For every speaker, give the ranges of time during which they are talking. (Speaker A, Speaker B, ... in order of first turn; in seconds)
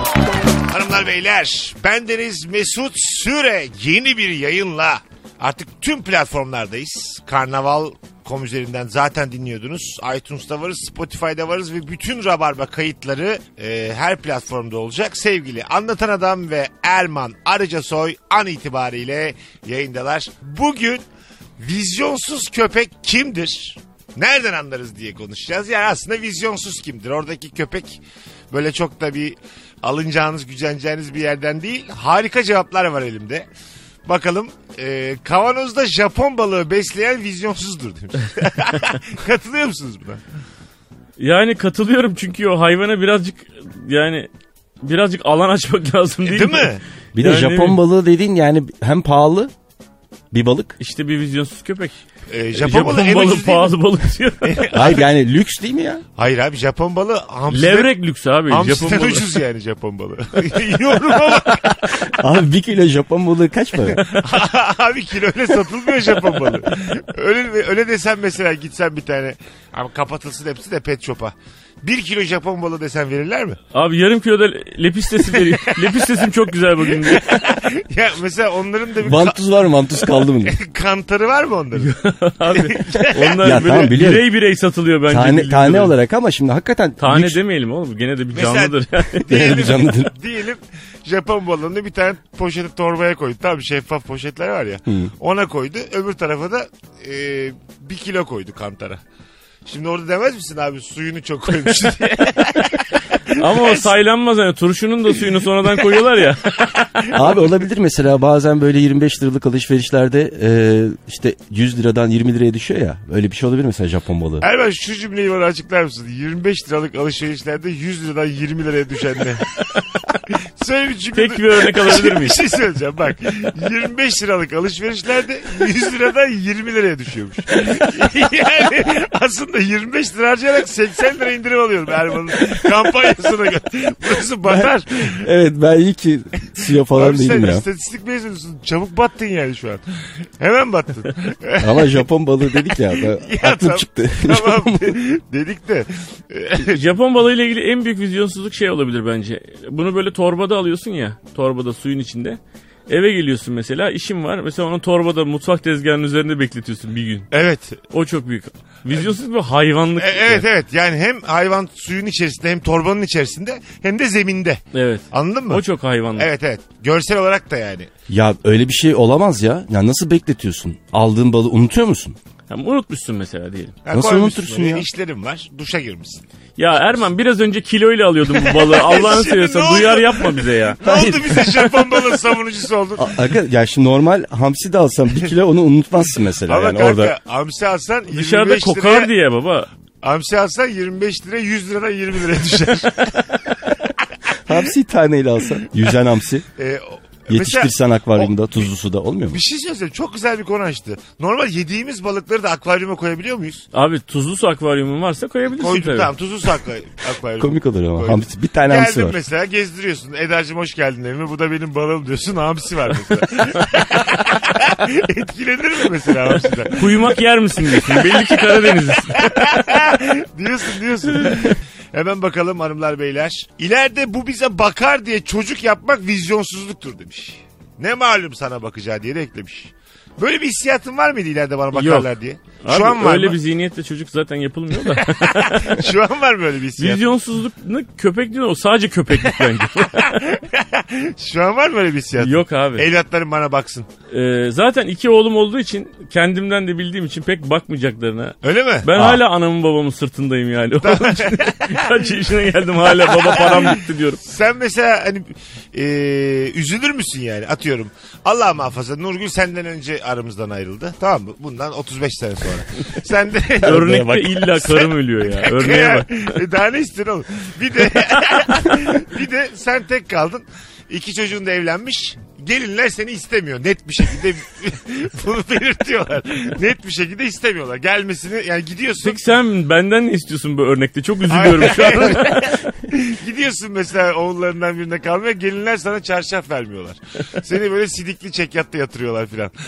Speaker A: 0.7-21.0, 21.6-33.5, 34.1-40.2, 46.2-46.8, 52.3-53.8, 54.4-55.0, 56.2-57.9, 58.5-62.1, 63.9-73.6, 76.9-79.4, 80.4-81.9, 82.5-83.4, 88.3-99.0, 99.7-103.9, 107.0-107.4, 114.4-119.5, 120.2-135.3, 136.9-139.8, 140.4-142.0, 142.7-146.8, 157.3-157.8, 160.0-165.6, 166.2-167.9, 173.8-176.2, 178.3-183.2, 186.5-189.1, 190.0-193.6, 196.6-198.3, 199.3-203.7, 205.5-217.1, 217.9-218.2, 219.1-233.4, 235.5-237.0, 240.0-243.9, 248.4-248.9, 250.8-252.1, 252.9-279.2, 281.3-289.5
Speaker B: 41.2-44.3, 44.8-47.8, 50.8-52.0, 52.6-55.0, 57.5-59.4, 73.7-77.6, 81.8-85.9, 87.0-89.3, 103.4-106.8, 121.2-122.5, 146.7-157.3, 157.9-160.4, 164.7-166.3, 172.5-173.8, 176.6-181.6, 188.1-189.7, 203.7-206.1, 216.7-219.4, 231.7-232.1, 232.6-235.9, 236.8-240.3, 242.2-242.9, 244.1-254.2, 263.6-266.4, 279.0-282.5
Speaker C: 47.2-49.5, 50.3-50.8, 54.7-56.0, 62.1-64.0, 79.0-80.5, 83.4-84.3, 85.1-87.4, 89.3-90.1, 107.1-114.4, 134.4-137.6, 141.6-145.0, 168.1-172.2, 173.9-174.9, 183.0-187.1, 194.4-196.5, 197.3-199.4, 207.4-209.2, 248.9-249.2